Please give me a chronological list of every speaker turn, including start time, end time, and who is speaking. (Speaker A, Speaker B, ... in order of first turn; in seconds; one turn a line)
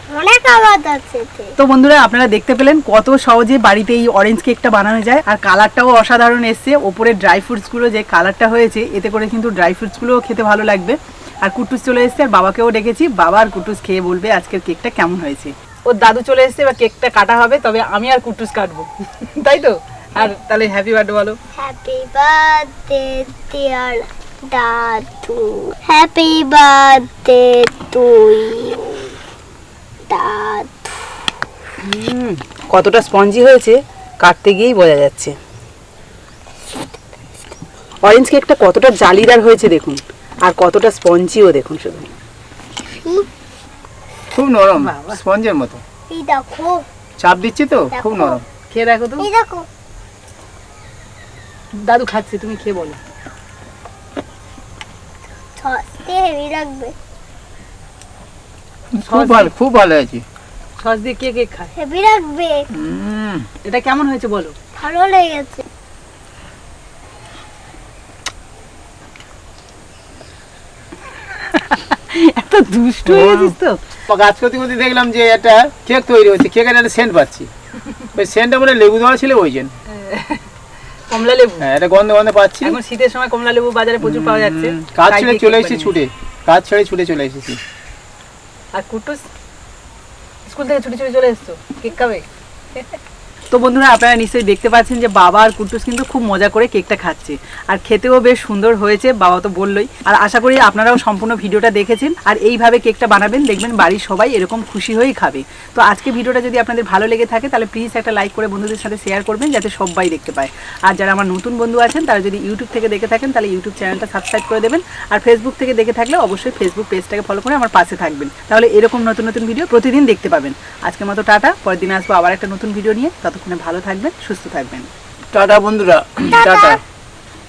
Speaker A: 0.1-1.5
Speaker B: 1.6-21.4
Speaker A: 21.6-29.1
Speaker A: 30.1-31.1
Speaker B: 31.8-35.4
Speaker B: 38.0-42.1
Speaker A: 43.0-43.3
Speaker C: 44.3-45.8
Speaker B: 44.8-45.2
Speaker A: 46.1-46.8
Speaker C: 47.2-48.4
Speaker A: 47.9-48.4
Speaker B: 48.7-49.3
Speaker A: 49.2-49.7
Speaker B: 51.7-53.0
Speaker A: 55.6-56.9
Speaker C: 58.9-60.2
Speaker B: 59.0-59.5
Speaker B: 60.8-61.7
Speaker A: 61.8-62.7
Speaker C: 62.7-63.5
Speaker B: 63.6-64.5
Speaker A: 64.8-65.6
Speaker B: 71.3-73.8
Speaker C: 73.0-73.5
Speaker C: 74.1-77.5
Speaker C: 78.1-79.7
Speaker B: 79.9-80.4
Speaker B: 81.1-81.7
Speaker C: 81.6-82.8
Speaker B: 82.6-86.0
Speaker C: 84.0-87.6
Speaker B: 88.7-89.2
Speaker B: 90.5-92.2
Speaker B: 93.5-124.9
Speaker C: 125.3-126.8
Speaker A: 126.4-126.8